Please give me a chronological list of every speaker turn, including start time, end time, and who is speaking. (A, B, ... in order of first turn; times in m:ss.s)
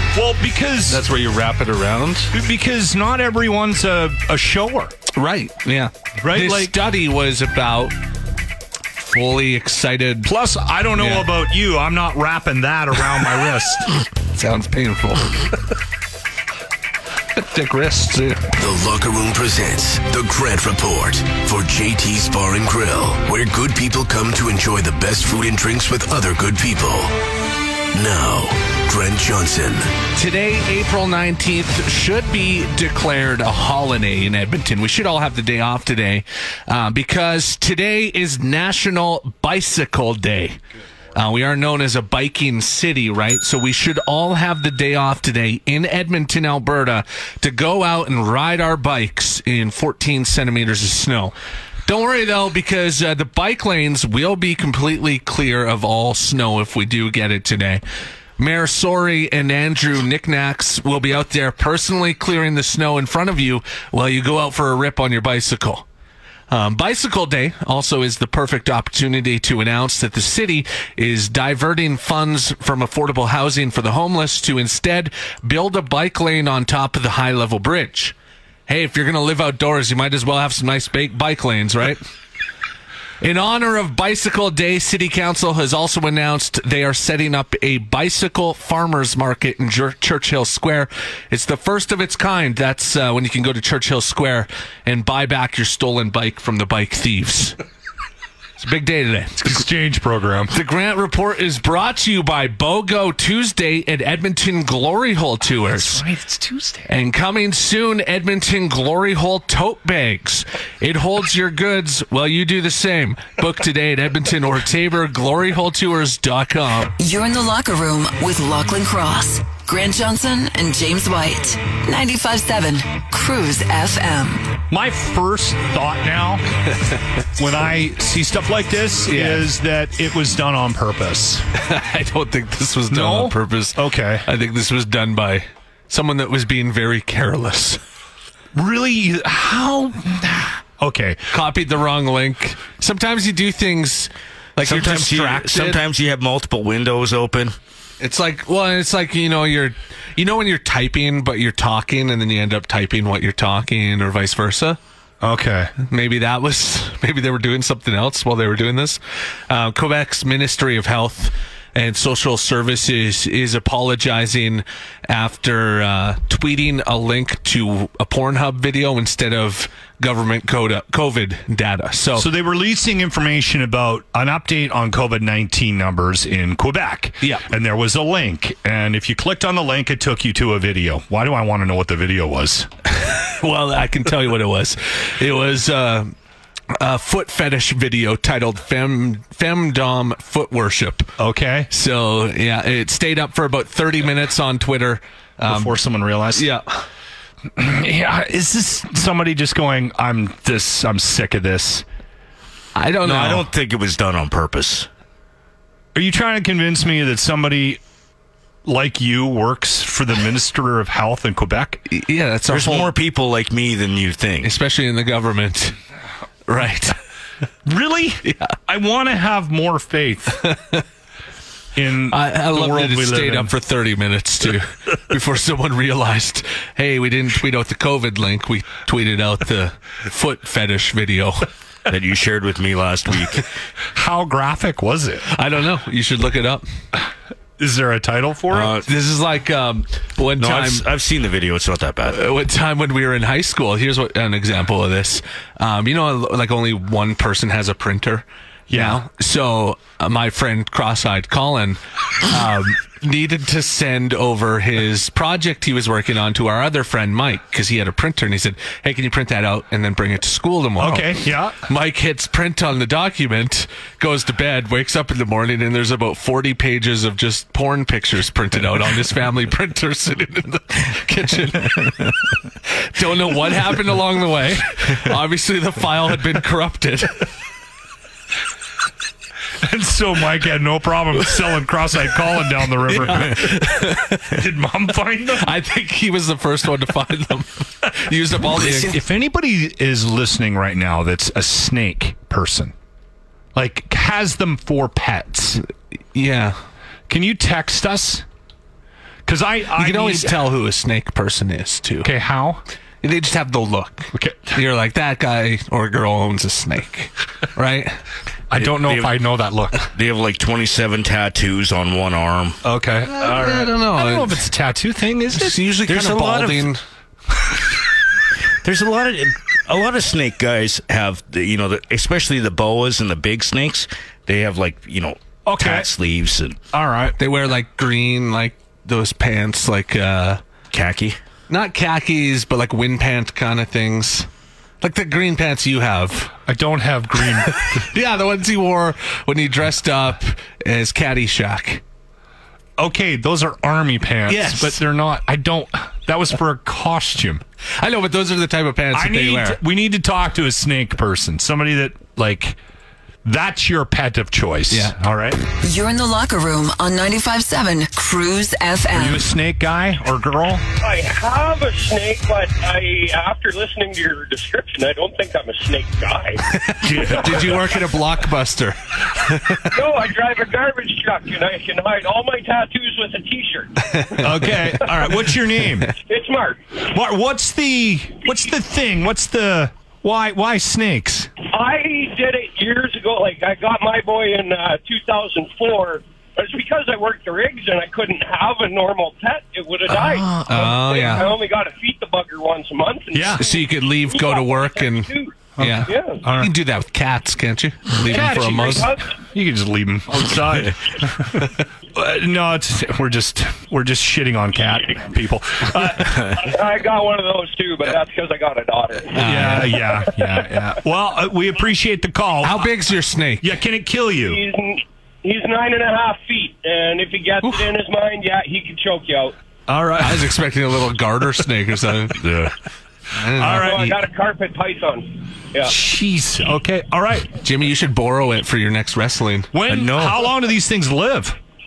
0:00.1-0:01.0 A
0:00.9-0:02.3 B
0:02.3-0:04.9 A
0:05.1-0:08.0 B
0:06.2-0:06.8 A
0:08.9-0:10.3 B
0:10.2-0:13.9 A
0:11.0-0:11.3 B
0:14.3-0:15.4 B
0:17.3-0:18.4 B
0:18.6-0:27.1 C
0:27.9-0:29.9 C
0:30.1-0:40.6 B
0:41.1-0:51.3 B
0:51.8-0:57.8 B
0:58.4-1:05.8 B
1:06.5-1:18.1 B
1:18.7-1:22.0 B
1:23.2-1:37.6 B
1:38.6-1:39.6 B
1:39.4-1:40.5 A
1:40.5-1:46.0 B
1:45.7-1:46.9 A
1:46.9-1:56.9 B
1:57.0-2:04.5 D
2:04.7-2:06.4 A
2:07.4-2:11.5 A
2:09.1-2:09.5 B
2:11.6-2:17.8 B
2:12.9-2:14.2 A
2:18.5-2:21.2 A
2:21.3-2:25.8 B
2:24.6-2:27.5 E
2:28.0-2:34.8 B
2:35.2-2:35.7 A
2:35.8-2:52.3 B
2:52.1-3:02.7 A
3:03.0-3:06.1 B
3:06.7-3:11.1 B
3:11.2-3:11.7 A
3:11.7-3:15.8 B
3:15.4-3:16.5 A
3:16.3-3:16.8 B
3:17.5-3:21.8 A
3:22.7-3:23.5 B
3:23.0-3:24.9 E
3:25.9-3:27.8 A
3:28.6-3:31.8 A
3:31.9-3:32.9 B
3:32.5-3:34.5 E
3:34.4-3:35.8 B
3:36.5-3:37.0 B
3:37.6-3:40.4 A
3:38.3-3:38.5 B
3:40.4-3:40.8 B
3:41.7-3:43.5 A
3:42.1-3:51.5 B
3:51.9-3:53.5 E
3:53.9-3:55.3 A
3:55.3-3:56.6 B
3:57.6-3:58.8 A
3:58.5-3:58.8 E
3:58.8-4:00.8 B
4:00.4-4:02.2 E
4:02.1-4:32.1 B
4:08.7-4:09.0 A
4:12.3-4:12.6 A
4:20.8-4:21.6 A
4:32.7-4:37.2 B
4:39.6-4:45.5 A
4:42.8-4:44.3 B
4:45.3-4:49.0 B
4:48.5-4:52.7 A
4:53.5-4:55.6 A
4:56.1-4:56.6 B
4:57.1-4:58.2 A
4:59.2-5:00.4 A
4:59.8-5:02.1 B
5:02.0-5:02.6 A
5:03.0-5:08.0 B
5:04.1-5:04.6 A
5:08.5-5:09.8 A
5:08.6-5:09.1 E
5:09.9-5:12.6 E
5:12.6-5:15.6 A
5:13.1-5:14.4 B
5:15.3-5:16.8 B
5:15.9-5:16.7 E
5:18.6-5:26.6 E
5:25.4-5:25.9 A
5:26.7-5:27.2 A
5:27.2-5:30.4 B
5:30.7-5:31.2 E
5:31.5-5:34.3 B
5:34.8-5:36.3 B
5:36.5-5:37.9 A
5:37.4-5:41.8 B
5:42.8-5:47.4 A
5:44.3-5:44.8 B
5:47.8-5:49.6 B
5:48.9-5:52.6 A
5:53.2-5:55.4 A
5:54.7-5:54.9 B
5:55.6-5:59.3 D
5:58.9-6:00.6 A
6:00.8-6:06.4 F
6:06.5-6:09.8 B
6:06.9-6:07.3 E
6:07.2-6:07.4 F
6:09.7-6:13.8 F
6:13.9-6:14.6 B
6:14.2-6:15.9 A
6:16.0-6:16.8 F
6:16.8-6:21.3 A
6:21.4-6:36.2 F
6:29.9-6:30.8 A
6:30.4-6:31.3 B
6:33.1-6:33.4 A
6:33.4-6:38.9 B
6:35.6-6:36.5 A
6:38.0-6:46.4 A
6:38.4-6:39.0 F
6:46.4-6:49.2 F
6:49.1-6:49.8 B
6:49.1-6:52.7 A
6:52.4-6:53.5 B
6:53.4-6:54.4 A
6:54.2-6:59.4 F
6:57.4-6:57.7 B
6:59.7-7:00.4 A
7:00.0-7:02.3 B
7:02.2-7:02.5 E
7:03.1-7:03.9 B
7:03.4-7:04.0 A
7:03.5-7:05.7 F
7:05.6-7:07.3 A
7:07.4-7:09.5 B
7:09.5-7:11.4 A
7:09.7-7:10.2 E